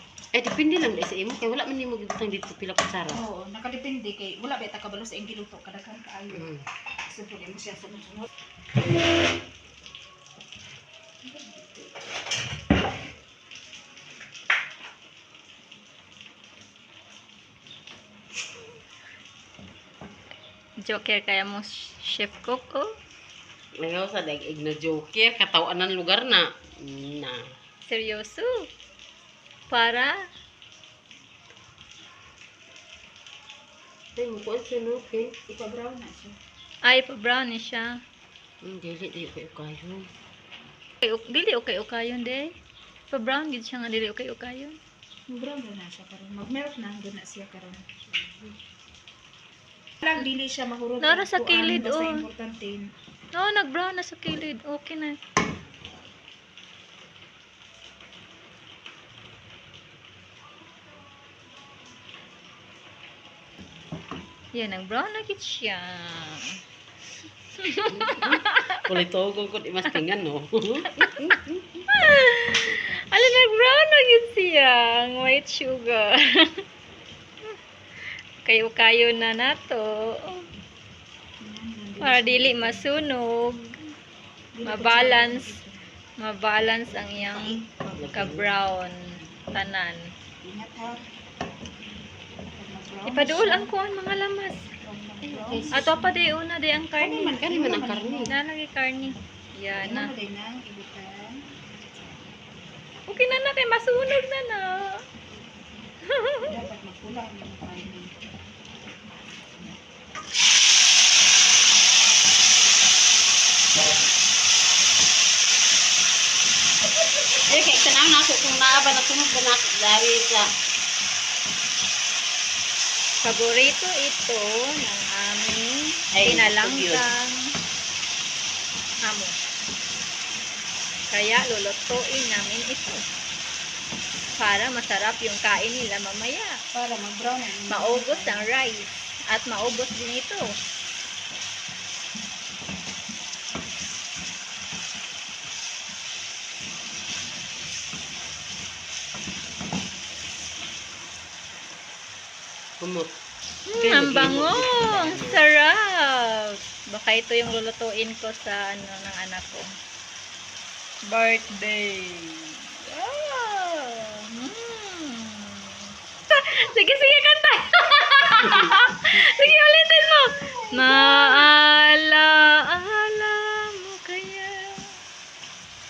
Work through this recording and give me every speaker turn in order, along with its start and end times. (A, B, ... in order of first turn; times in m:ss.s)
0:00.3-0:03.2 A
0:03.1-0:06.5 B
0:07.1-0:08.3 B
0:20.8-0:22.9 C
0:23.8-0:27.4 A
0:27.9-0:28.7 C
0:29.7-0:30.3 C
0:34.2-0:35.3 A
0:35.5-0:36.4 B
0:36.8-0:38.0 C
0:38.6-0:40.1 A
0:41.0-0:42.6 C
0:43.1-0:44.8 C
0:45.3-0:47.8 B
0:48.1-0:48.5 A
0:50.0-0:52.9 B
0:51.0-0:52.2 C
0:53.3-0:55.2 C
1:04.5-1:06.6 C
1:07.6-1:08.8 C
1:07.9-1:11.0 A
1:11.1-1:11.6 B
1:11.9-1:16.6 C
1:18.4-1:20.5 C
1:21.4-1:22.9 B
1:22.0-1:23.9 C
1:24.5-1:25.9 B
1:24.7-1:25.6 C
1:26.2-1:27.6 C
1:27.2-1:28.3 B
1:28.0-1:28.5 A
1:28.1-1:30.1 C
1:30.4-1:31.0 B
1:32.6-1:33.7 B
1:33.1-1:34.7 C
1:34.8-1:36.1 B
1:35.2-1:37.4 C
1:37.0-1:38.3 B
1:37.4-1:38.3 A
1:38.3-1:40.1 C
1:39.8-1:41.4 B
1:43.1-1:45.0 C
1:46.1-1:46.6 C
1:46.4-1:48.2 B
1:49.5-1:49.8 B
1:57.4-2:00.5 A
2:03.2-2:07.4 C
2:06.1-2:07.1 A
2:09.0-2:09.4 C
2:11.1-2:13.0 C
2:14.4-2:16.6 C
2:16.7-2:18.5 B
2:17.7-2:20.5 C
2:32.8-2:33.1 A
2:33.7-2:39.6 C
2:33.8-2:35.4 A
2:41.1-2:55.0 C
2:50.5-2:51.5 B